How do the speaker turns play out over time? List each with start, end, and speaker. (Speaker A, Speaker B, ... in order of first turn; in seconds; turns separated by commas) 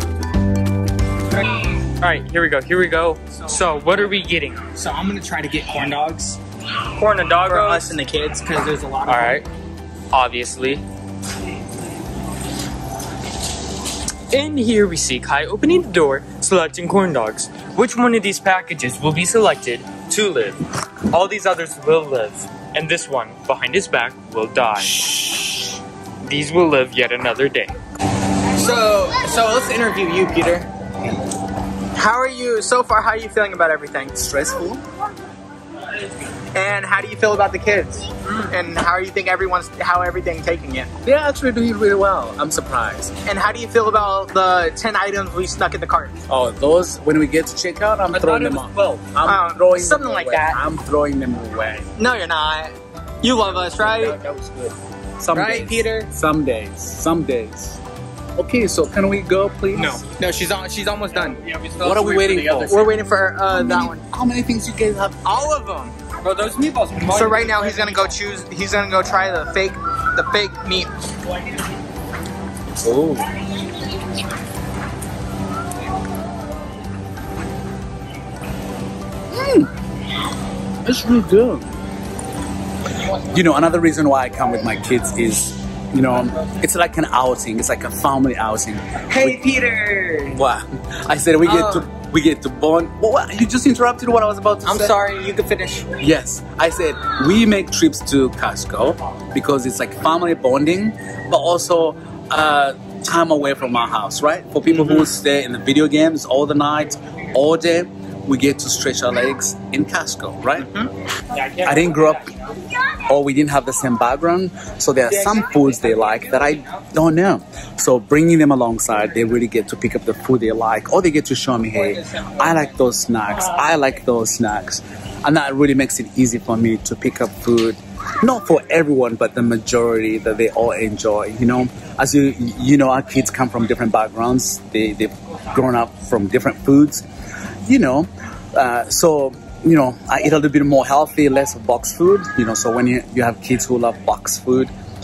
Speaker A: 1.9-4.6, Speaker B: 3.3-3.6, Speaker B: 4.7-6.4, Speaker A: 6.9-8.0, Speaker B: 7.5-9.4, Speaker A: 9.1-9.5, Speaker A: 10.1-10.8, Speaker A: 14.3-25.7, Speaker C: 24.9-25.5, Speaker A: 26.2-27.7, Speaker B: 28.5-30.7, Speaker B: 31.9-34.1, Speaker C: 34.1-34.8, Speaker B: 36.5-40.9, Speaker C: 41.0-43.1, Speaker B: 43.2-46.2, Speaker C: 46.3-51.9, Speaker A: 48.1-49.1, Speaker B: 49.2-50.6, Speaker B: 52.0-54.2, Speaker A: 53.5-54.7, Speaker C: 55.2-57.8, Speaker B: 55.3-56.1, Speaker C: 58.4-60.0, Speaker B: 59.8-61.4, Speaker A: 61.1-62.9, Speaker C: 61.8-62.9, Speaker B: 62.6-64.0, Speaker C: 63.5-65.3, Speaker B: 65.2-66.0, Speaker A: 66.2-68.2, Speaker B: 67.1-70.9, Speaker C: 72.8-73.3, Speaker C: 79.3-79.7, Speaker C: 80.8-81.7, Speaker C: 83.2-89.4, Speaker B: 89.1-90.4, Speaker C: 90.3-95.0, Speaker B: 91.4-91.9, Speaker B: 94.7-96.0, Speaker C: 96.0-110.7, Speaker B: 104.7-105.1, Speaker B: 110.6-110.9, Speaker A: 111.3-112.6, Speaker C: 111.6-112.3, Speaker C: 113.0-137.1, Speaker A: 115.1-116.8, Speaker B: 121.7-122.9, Speaker C: 137.6-144.7